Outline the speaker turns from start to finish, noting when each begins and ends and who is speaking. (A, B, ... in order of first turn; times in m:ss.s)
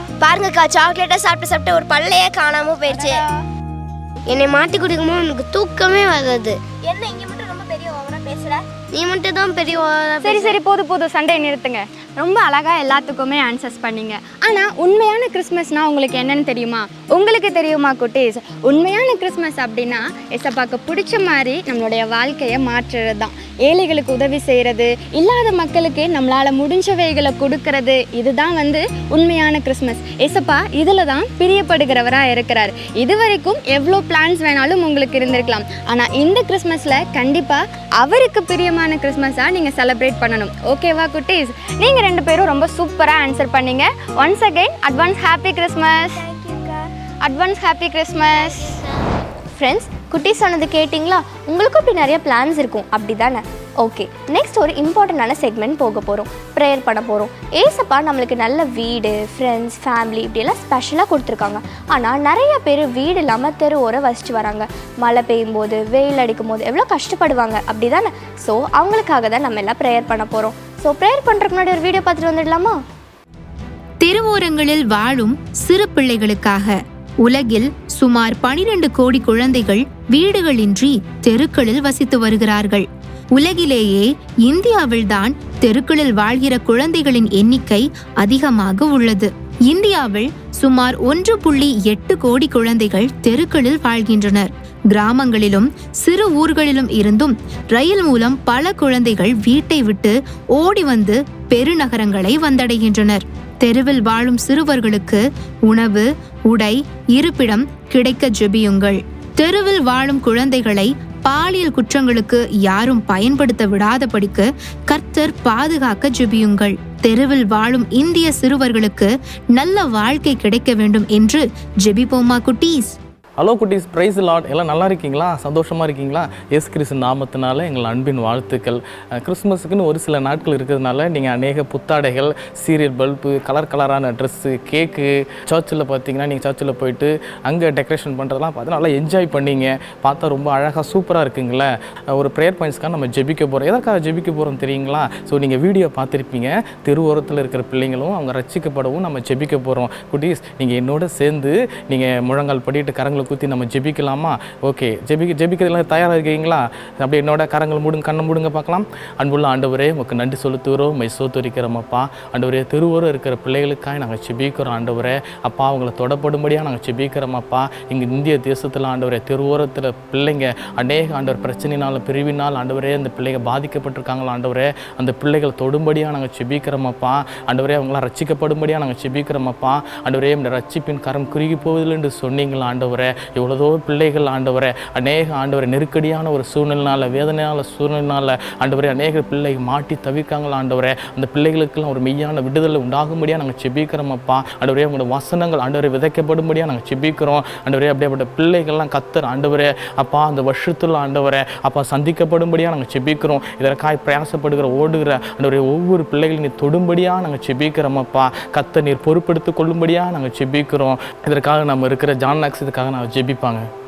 0:00.2-0:03.2 A
0:02.9-0:03.2 B
0:04.3-0:06.6 C
0:06.8-0:08.6 A
0:08.9-0:10.6 C
0:10.2-0:46.2 B
0:47.2-0:48.8 B
0:49.6-1:12.8 D
1:14.0-2:03.0 E
2:03.4-3:33.7 F